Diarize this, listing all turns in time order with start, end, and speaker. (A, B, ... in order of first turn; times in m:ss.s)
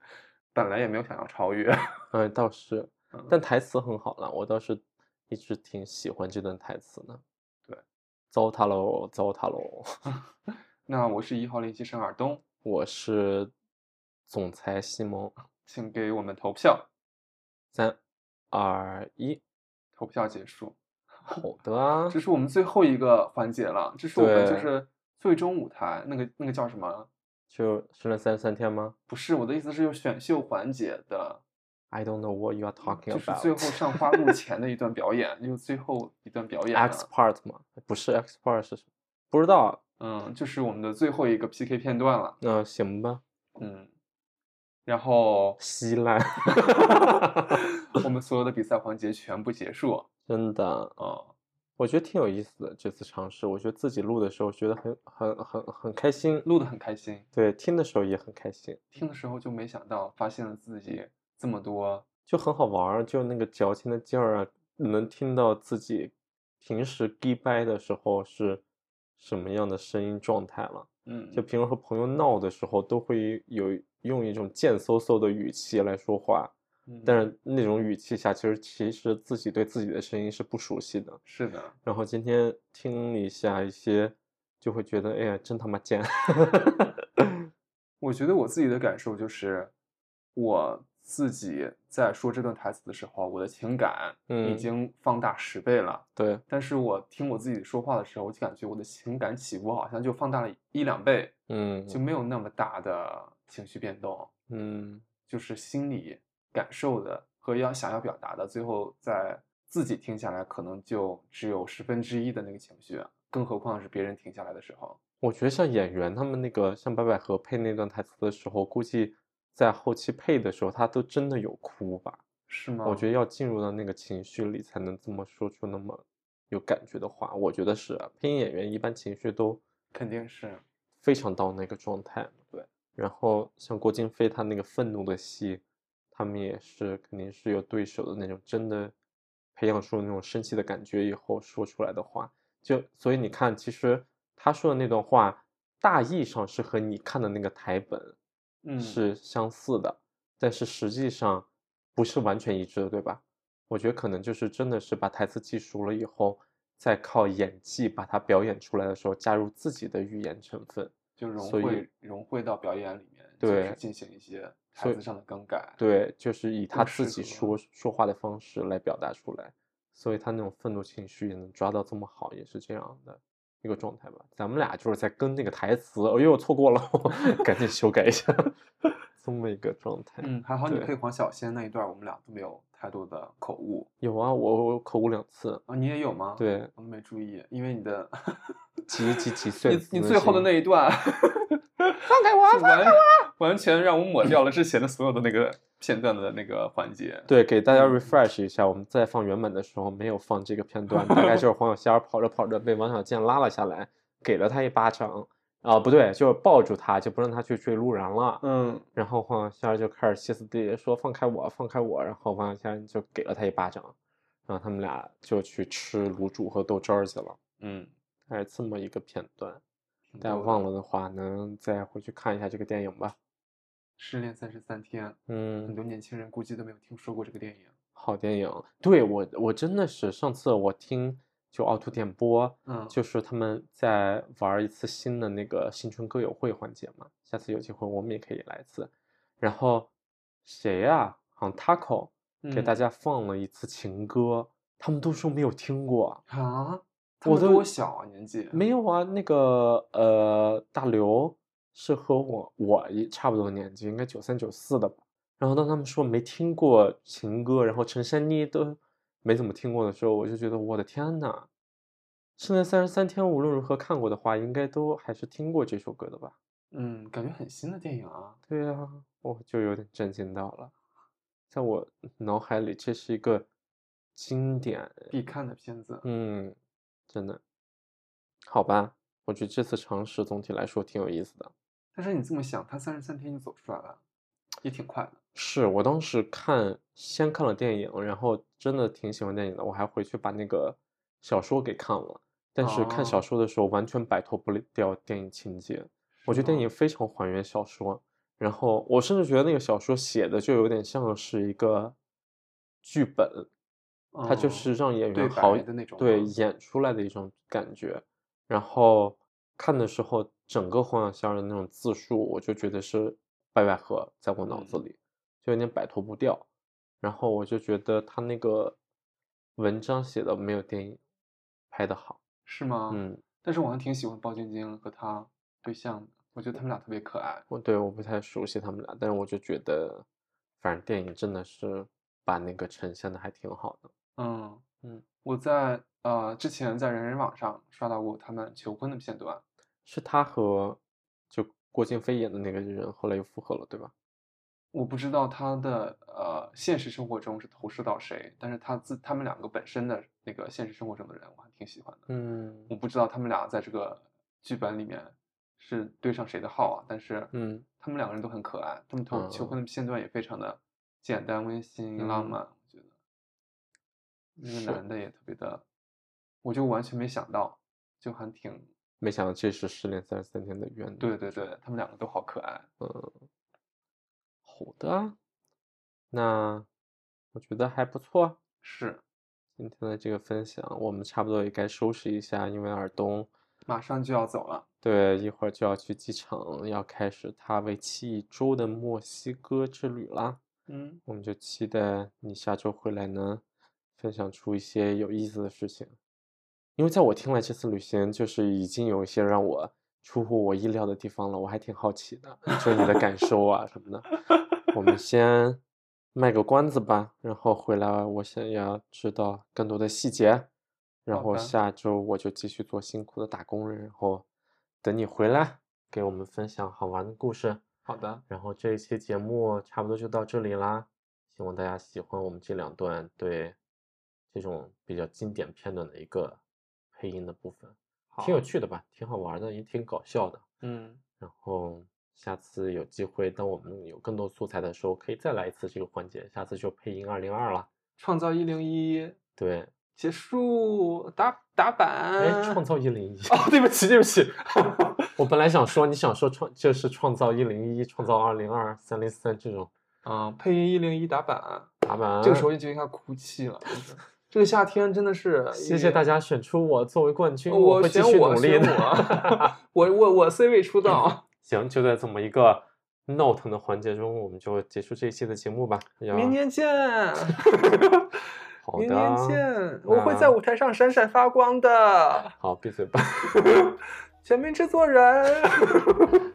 0:00.5-0:02.1 A
0:02.1-0:07.2 B
0:08.3-0:10.0 B
0:10.9-0:12.4 A
0:12.6-0:13.5 B
0:14.3-0:15.3 B
0:15.6-0:16.9 A
0:17.7-0:18.0 B
0:18.5-0:19.4 B
0:20.0-0:21.4 A
0:21.3-0:22.2 B
0:22.1-0:27.1 A
0:24.1-0:24.7 B
0:27.5-0:29.0 B
0:29.1-0:31.4 A
0:31.9-0:34.3 B
0:33.1-0:37.1 A
0:36.7-0:39.8 B
0:40.0-0:42.4 A
0:42.4-0:43.2 B
0:43.6-0:43.9 A
0:44.8-0:45.6 A
0:45.6-0:47.6 B
0:47.5-0:50.1 A
0:50.2-0:50.9 B
0:51.0-0:51.3 A
0:51.8-0:56.5 B
0:56.4-0:57.3 A
0:57.3-0:58.8 B
0:58.9-1:02.0 A
1:02.2-1:08.6 B
1:09.2-1:16.5 B
1:11.0-1:11.4 A
1:16.9-1:17.2 A
1:17.0-1:21.2 B
1:21.2-1:21.8 A
1:21.8-1:27.4 B
1:28.0-1:29.7 A
1:30.3-1:41.3 A
1:34.3-1:34.7 B
1:36.2-1:36.4 B
1:41.5-1:42.0 B
1:41.9-1:44.3 A
1:44.5-1:45.0 B
1:45.3-1:55.0 A
1:55.2-2:02.2 B
2:02.5-2:03.1 A
2:02.8-2:09.6 B
2:09.9-2:10.6 A
2:11.0-2:12.4 B
2:13.0-2:15.6 B
2:16.1-2:18.9 B
2:19.6-2:28.2 B
2:28.6-2:29.0 A
2:28.8-2:41.8 B
2:41.2-2:45.8 A
2:43.4-2:43.8 B
2:45.8-2:58.6 B
2:46.7-2:47.6 A
2:59.2-3:00.9 B
3:00.2-3:03.9 A
3:04.0-3:05.6 B
3:05.7-3:08.6 A
3:06.4-3:06.7 B
3:08.9-3:10.5 B
3:09.1-3:18.1 A
3:12.1-3:13.2 B
3:17.3-3:28.4 B
3:21.1-3:21.4 A
3:28.4-3:28.8 A
3:28.9-3:34.0 B
3:34.5-3:37.4 B
3:37.6-3:37.9 A
3:38.3-3:39.6 B
3:40.1-3:40.6 A
3:40.2-3:43.2 B
3:44.0-3:47.7 A
3:45.3-3:45.8 B
3:48.0-3:59.9 B
3:52.6-3:53.0 A
4:00.4-4:06.2 B
4:02.4-4:02.8 A
4:06.3-4:08.6 A
4:07.2-4:07.7 B
4:08.5-4:21.5 B
4:22.4-4:26.4 B
4:26.7-4:28.4 A
4:28.5-4:30.7 B
4:31.5-4:33.5 B
4:34.1-4:35.1 B
4:35.1-4:36.1 A
4:36.0-4:36.6 B
4:37.1-4:37.4 B
4:38.4-4:41.5 B
4:41.9-4:44.0 A
4:44.6-4:45.2 A
4:45.3-5:02.0 B
4:52.6-4:53.2 A
4:56.2-4:56.7 A
5:02.8-5:03.5 B
5:04.1-5:06.3 A
5:04.2-5:16.5 B
5:14.4-5:14.8 A
5:17.0-5:18.8 B
5:19.6-5:21.0 B
5:21.7-5:22.2 B
5:22.4-5:27.4 A
5:22.9-5:23.2 B
5:27.5-5:30.0 B
5:30.6-5:33.9 B
5:34.2-5:39.4 A
5:39.8-5:40.8 B
5:41.3-5:43.9 B
5:44.7-5:52.1 A
5:52.1-5:52.7 B
5:52.7-6:02.9 A
5:57.3-5:57.6 B
5:59.1-5:59.6 B
6:02.0-6:02.4 B
6:04.4-6:05.6 A
6:04.4-6:04.8 B
6:06.4-6:08.7 A
6:09.0-6:11.1 B
6:11.0-6:12.7 A
6:12.8-6:13.3 B
6:14.4-6:15.2 B
6:16.1-6:16.7 B
6:17.3-6:18.4 B
6:18.6-6:19.0 A
6:19.6-6:23.3 B
6:23.7-6:24.6 A
6:24.8-6:30.4 B
6:30.7-6:31.0 A
6:31.0-6:33.4 B
6:34.0-6:35.9 B
6:36.8-6:44.1 B
6:44.7-6:45.6 B
6:46.1-6:50.5 B
6:51.0-6:54.2 B
6:51.1-6:51.5 A
6:54.8-6:57.6 B
6:57.8-6:58.2 A
6:58.3-7:03.6 B
7:04.3-7:06.4 B
7:06.9-7:10.4 B
7:08.1-7:08.4 A
7:10.6-7:11.0 A
7:11.2-7:17.7 B
7:18.0-7:19.2 A
7:19.4-7:19.7 B
7:20.0-7:22.6 A
7:22.2-7:23.4 B
7:23.3-7:25.1 A
7:25.2-7:29.7 B
7:30.0-7:31.7 A
7:31.8-7:32.5 B
7:32.2-7:36.0 A
7:35.5-7:39.5 B
7:37.5-7:41.2 A
7:41.4-7:46.4 B
7:46.1-7:48.0 A
7:48.6-7:50.4 B
7:48.7-7:52.3 A
7:52.4-7:53.6 B
7:54.2-7:56.1 A